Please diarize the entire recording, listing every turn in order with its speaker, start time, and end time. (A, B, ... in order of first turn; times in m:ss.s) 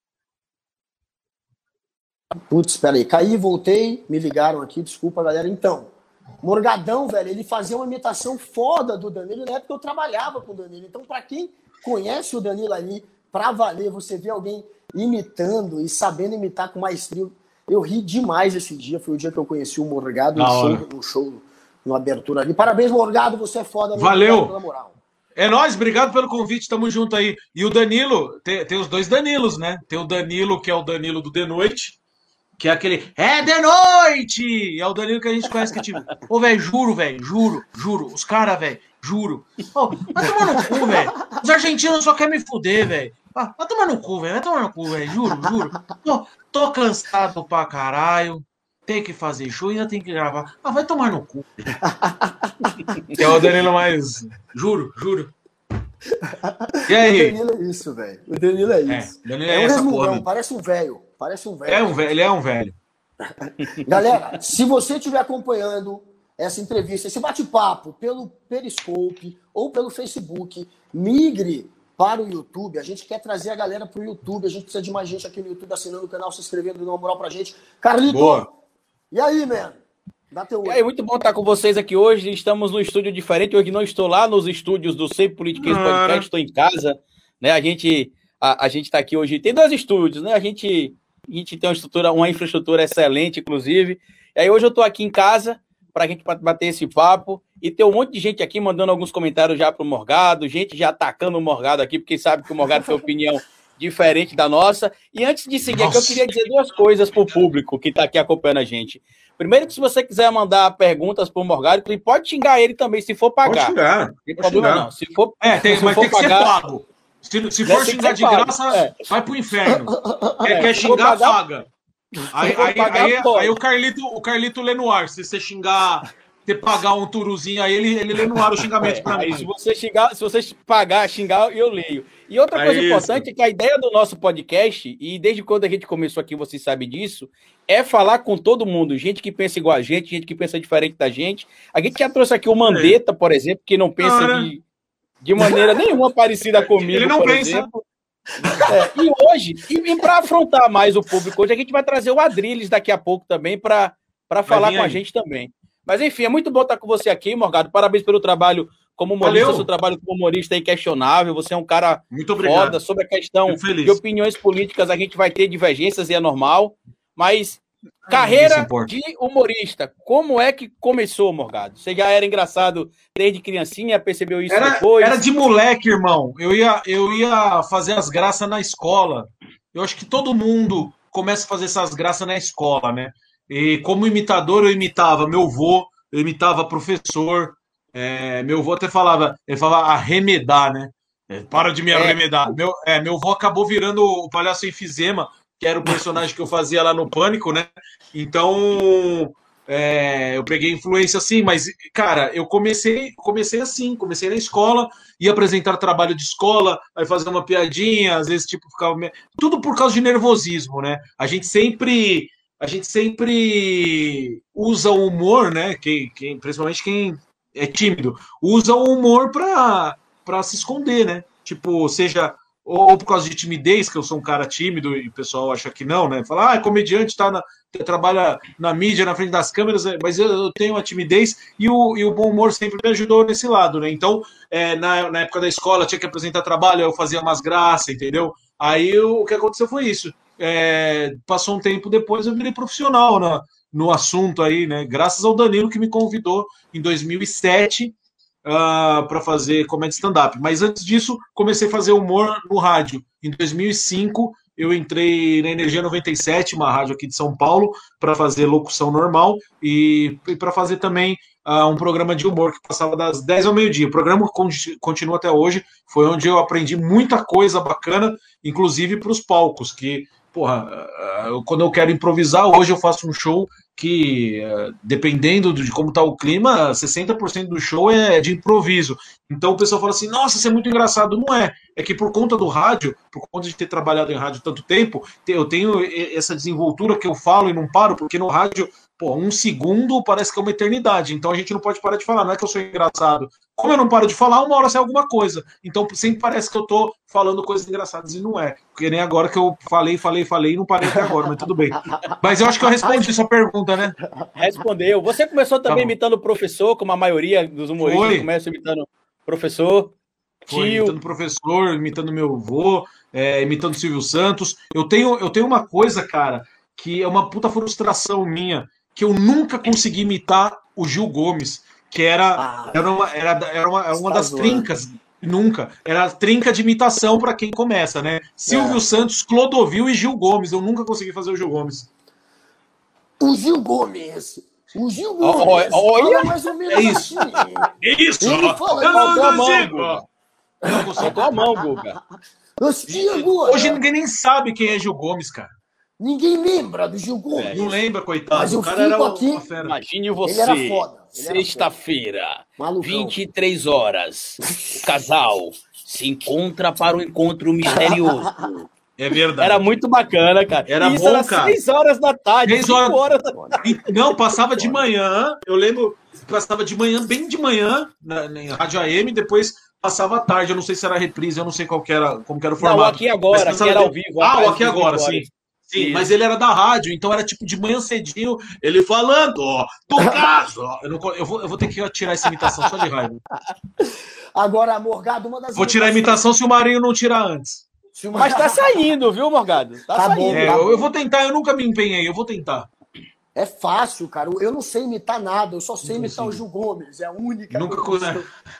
0:02.5-0:25.0 A
0:20.3-0:20.8 B
0:23.9-0:24.6 B
0:25.4-0:32.0 B
0:32.6-0:51.4 B
0:40.6-0:41.4 A
0:51.8-0:53.5 A
0:53.1-0:55.3 B
0:56.4-1:01.9 A
0:56.9-0:57.4 B
0:58.9-1:00.3 B
1:01.6-1:02.8 B
1:03.4-1:18.5 A
1:18.0-1:18.5 B
1:19.1-1:19.8 A
1:20.3-1:20.8 A
1:20.6-1:53.7 C
1:25.6-1:26.3 B
1:45.7-1:46.2 B
1:53.4-2:01.7 B
1:54.2-1:56.5 C
1:57.6-1:59.0 C
1:59.7-2:00.5 A
2:00.5-2:01.4 C
2:02.3-2:09.5 B
2:02.4-2:03.6 C
2:08.8-2:24.6 C
2:12.5-2:13.2 B
2:22.7-2:23.0 B
2:24.0-2:24.5 B
2:25.2-2:27.8 C
2:26.7-2:27.7 B
2:28.7-2:55.2 C
2:34.5-2:35.0 B
2:39.2-2:39.7 B
2:42.1-2:42.8 B
2:43.4-2:44.0 B
2:48.0-2:48.9 B
2:54.5-5:03.9 B
3:11.9-3:12.5 C
5:01.8-5:02.1 A
5:04.4-5:09.9 C
5:05.7-5:05.9 B
5:07.8-5:08.3 B
5:10.5-5:11.0 C
5:10.5-5:31.9 B
5:22.4-5:22.9 A
5:23.9-5:24.7 A
5:28.5-5:28.8 A
5:33.2-5:37.7 A
5:35.2-5:37.4 C
5:36.7-5:37.1 B
5:37.8-5:40.0 B
5:38.2-5:39.7 A
5:38.9-5:40.0 C
5:40.6-5:41.3 B
5:40.6-5:41.6 A
5:41.0-5:42.0 C
5:42.6-5:43.8 A
5:42.9-5:45.5 B
5:46.0-5:47.8 A
5:47.4-5:47.7 C
5:47.5-5:49.8 B
5:48.3-5:49.4 A
5:49.6-5:58.3 C
5:50.2-5:51.7 A
5:52.6-5:53.2 A
5:54.4-5:54.9 A
5:57.6-5:58.5 A
5:59.0-5:59.7 B
5:59.4-6:03.4 C
6:00.7-6:01.6 B
6:02.4-6:03.1 B
6:03.1-6:03.6 A
6:03.6-6:23.2 B
6:04.5-6:04.8 A
6:12.6-6:16.1 C
6:20.0-6:20.2 A
6:24.4-6:26.2 A
6:25.5-6:27.7 B
6:27.9-6:28.9 A
6:28.1-6:30.8 C
6:29.9-6:30.9 A
6:30.3-6:32.7 B
6:33.4-6:38.3 A
6:35.8-6:36.4 B
6:37.5-6:38.2 B